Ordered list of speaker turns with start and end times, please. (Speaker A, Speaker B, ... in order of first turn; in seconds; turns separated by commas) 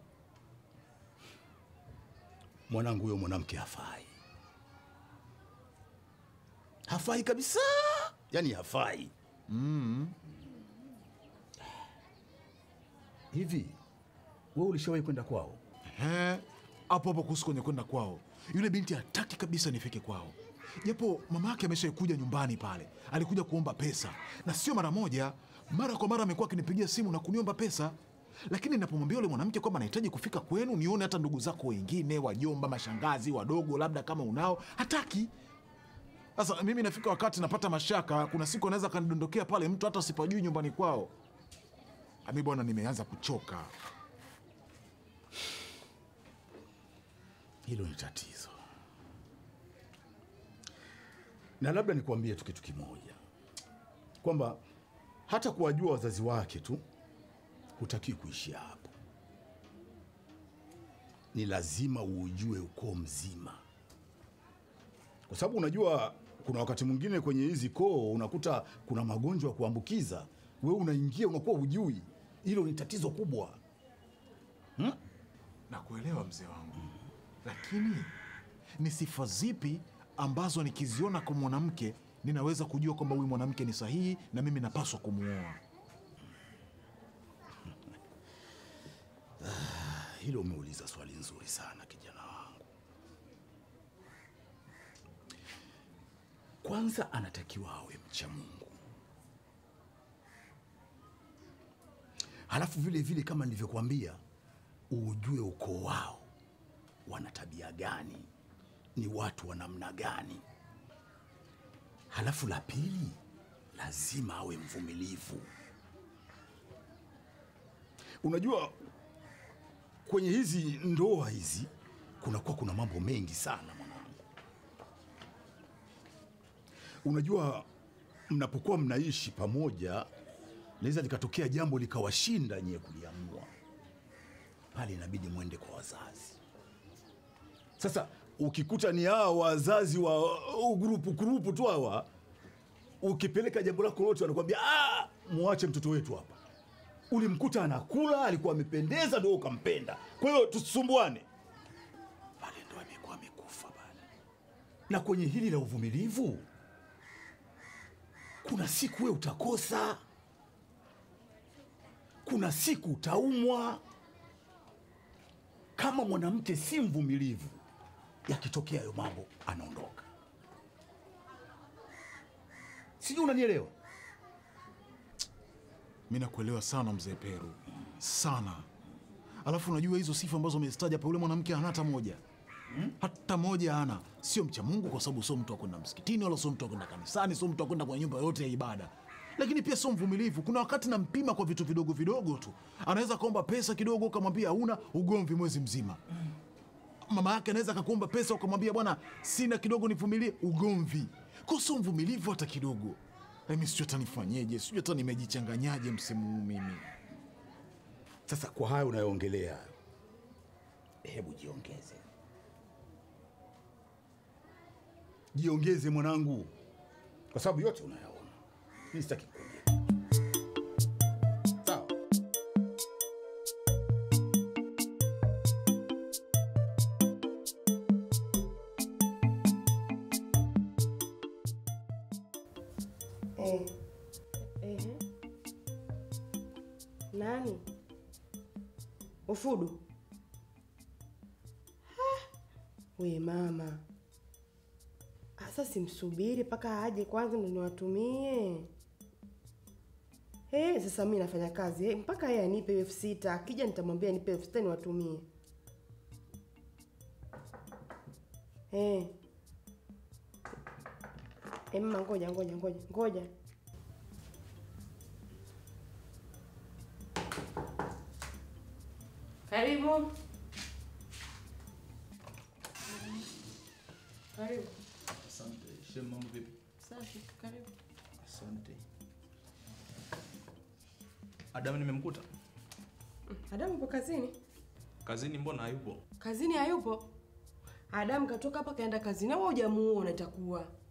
Speaker A: 2.7-4.1, Speaker A: 6.9-9.1, Speaker B: 9.5-10.1, Speaker A: 13.3-13.8, Speaker A: 14.5-15.6, Speaker B: 15.9-27.9, Speaker B: 28.5-35.3, Speaker B: 36.4-41.1, Speaker B: 42.2-43.7, Speaker A: 47.6-48.6, Speaker A: 51.6-53.2, Speaker A: 54.2-54.6, Speaker A: 55.3-56.8, Speaker A: 57.8-58.9, Speaker A: 61.3-63.6, Speaker A: 65.3-73.6, Speaker B: 75.7-76.8, Speaker B: 77.4-78.1, Speaker B: 78.8-85.6, Speaker A: 89.4-92.7, Speaker A: 96.6-98.8, Speaker A: 102.5-104.2, Speaker A: 104.9-106.3, Speaker A: 107.0-108.3, Speaker A: 109.0-110.4, Speaker A: 112.1-113.2, Speaker A: 113.7-115.5, Speaker A: 118.2-118.8, Speaker A: 120.0-124.2, Speaker A: 127.0-127.7, Speaker A: 128.3-130.1, Speaker A: 130.8-133.5, Speaker A: 134.7-136.4, Speaker A: 137.8-142.1, Speaker A: 143.0-146.4, Speaker A: 147.1-151.3, Speaker A: 152.4-154.0, Speaker A: 154.9-156.5, Speaker A: 158.4-160.0, Speaker A: 162.2-163.8, Speaker A: 165.8-167.6, Speaker A: 168.2-170.1, Speaker A: 173.0-173.7, Speaker B: 176.1-178.7, Speaker B: 179.4-182.2, Speaker B: 183.0-196.0, Speaker B: 197.1-206.9, Speaker A: 208.3-209.7, Speaker A: 211.0-212.0, Speaker A: 215.3-216.5, Speaker A: 217.3-218.4, Speaker A: 218.9-219.9, Speaker C: 233.4-233.7, Speaker C: 234.6-235.0, Speaker C: 237.1-237.6, Speaker C: 239.3-239.8, Speaker C: 241.9-242.2, Speaker C: 243.0-243.8, Speaker C: 245.4-248.7, Speaker C: 250.5-255.3, Speaker C: 258.7-259.1, Speaker C: 261.7-263.3, Speaker C: 269.5-270.1, Speaker C: 274.4-274.8, Speaker D: 275.2-276.5, Speaker C: 276.8-277.7, Speaker D: 278.2-278.8, Speaker D: 281.5-282.3, Speaker C: 283.3-284.4, Speaker D: 285.0-286.0, Speaker C: 286.2-287.1, Speaker C: 287.9-290.7